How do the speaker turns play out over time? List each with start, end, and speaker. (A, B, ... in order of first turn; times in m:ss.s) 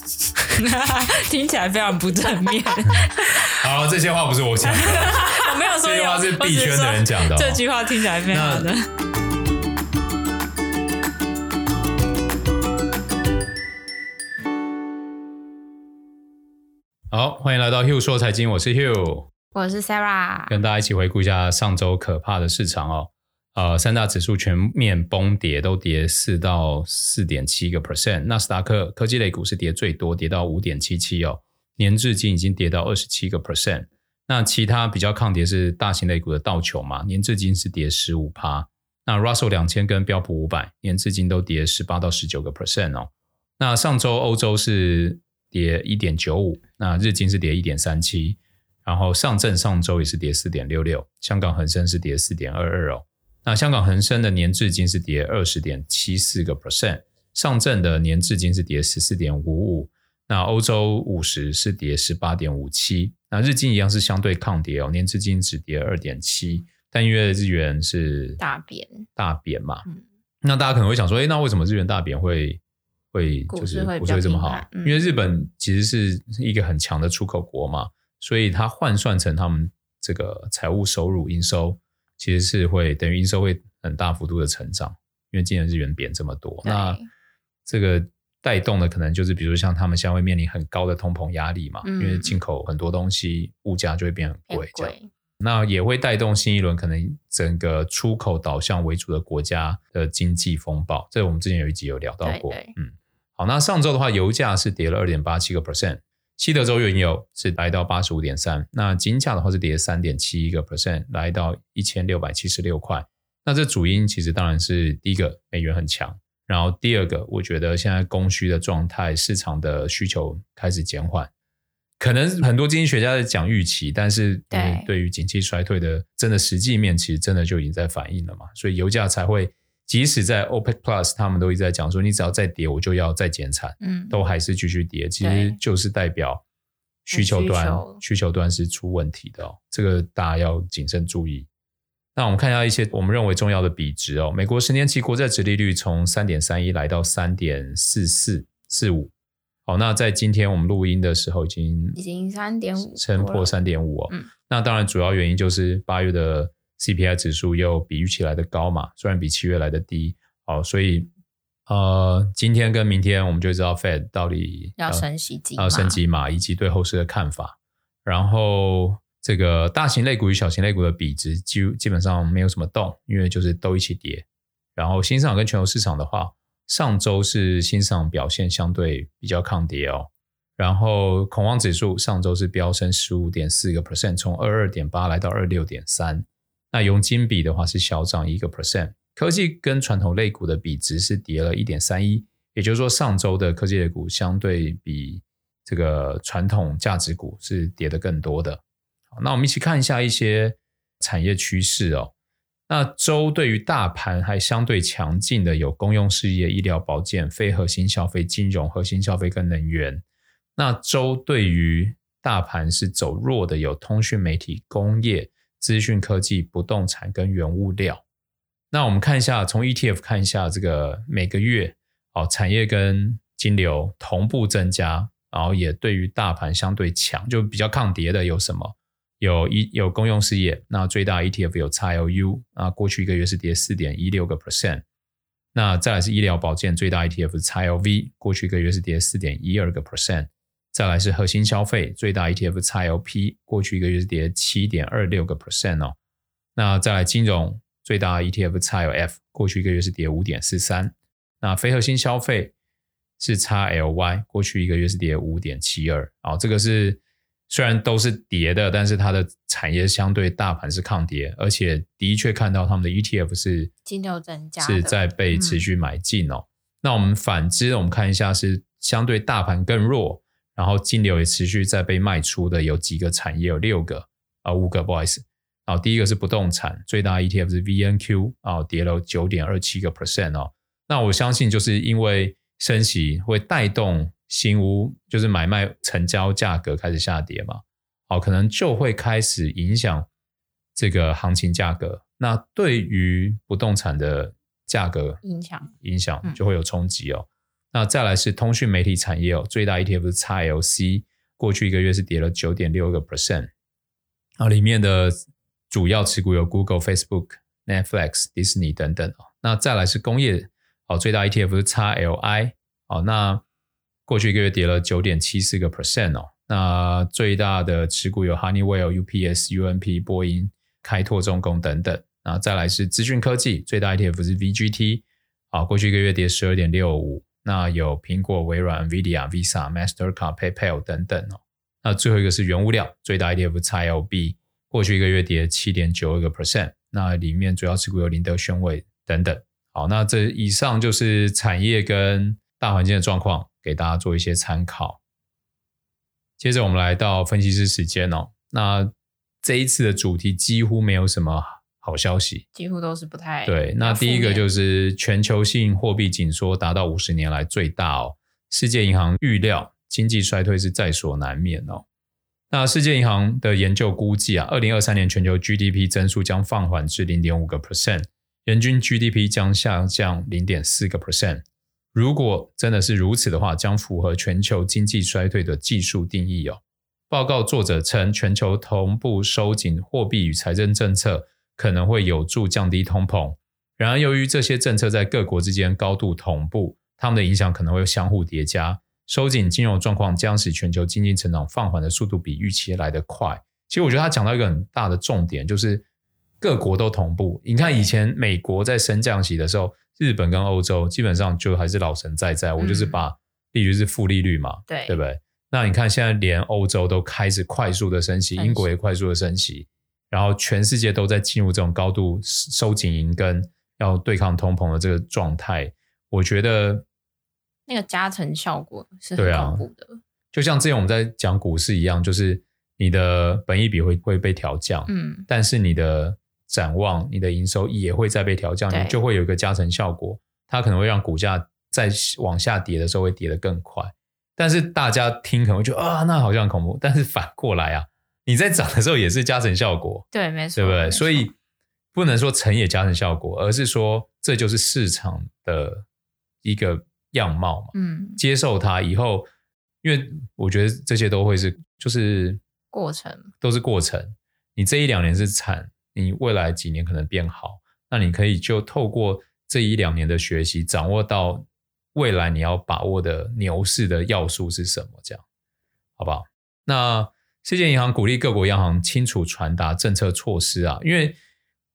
0:00.4-0:03.3 A
0:02.9-0:07.6 B
0:04.7-0:08.8 A
0:08.2-0:08.7 B
0:17.1-0:19.3 B
0:19.5-0:20.6 A
0:20.5-1:08.4 B
1:08.4-1:09.1 A
1:09.2-1:09.8 B
1:10.4-1:12.6 B
1:13.1-1:27.0 B
1:13.5-1:15.0 A
1:26.6-1:27.1 A
1:27.6-2:01.3 B
1:31.8-1:32.4 A
1:34.5-1:35.1 A
1:42.2-1:42.7 A
2:02.0-2:16.4 B
2:04.5-2:04.9 A
2:13.8-2:14.2 A
2:15.2-2:15.6 A
2:17.0-2:21.5 B
2:17.1-2:18.0 A
2:22.1-2:29.1 B
2:29.6-2:32.0 B
2:32.0-2:33.5 A
2:32.9-2:41.1 B
2:41.7-3:18.6 B
2:44.8-2:46.0 A
3:19.1-3:22.1 B
3:22.7-3:30.0 B
3:30.6-3:38.0 B
3:38.7-3:54.8 B
3:55.5-4:06.0 B
4:06.6-4:12.5 B
4:13.2-4:23.7 B
4:23.8-4:25.6 A
4:24.6-4:50.1 B
4:50.8-4:55.2 B
4:55.2-4:55.7 A
4:55.8-5:03.5 B
5:04.4-5:05.2 B
5:05.7-5:13.4 B
5:14.1-5:45.0 B
5:46.4-5:48.9 B
5:49.4-5:52.4 B
5:52.5-5:54.5 A
5:53.4-6:01.8 B
6:02.5-6:35.8 B
6:36.4-6:56.8 B
6:37.6-6:37.9 A
6:42.6-6:43.0 A
6:44.7-6:45.0 A
6:48.4-6:48.7 A
6:57.7-7:00.0 A
6:59.2-6:59.6 B
7:00.3-7:21.3 B
7:04.9-7:05.3 A
7:08.7-7:09.0 A
7:20.1-7:21.3 A
7:21.9-7:25.8 B
7:26.4-7:29.3 B
7:27.7-7:28.2 A
7:29.8-7:32.4 B
7:32.7-7:33.3 A
7:33.4-7:45.2 B
7:46.0-7:51.2 B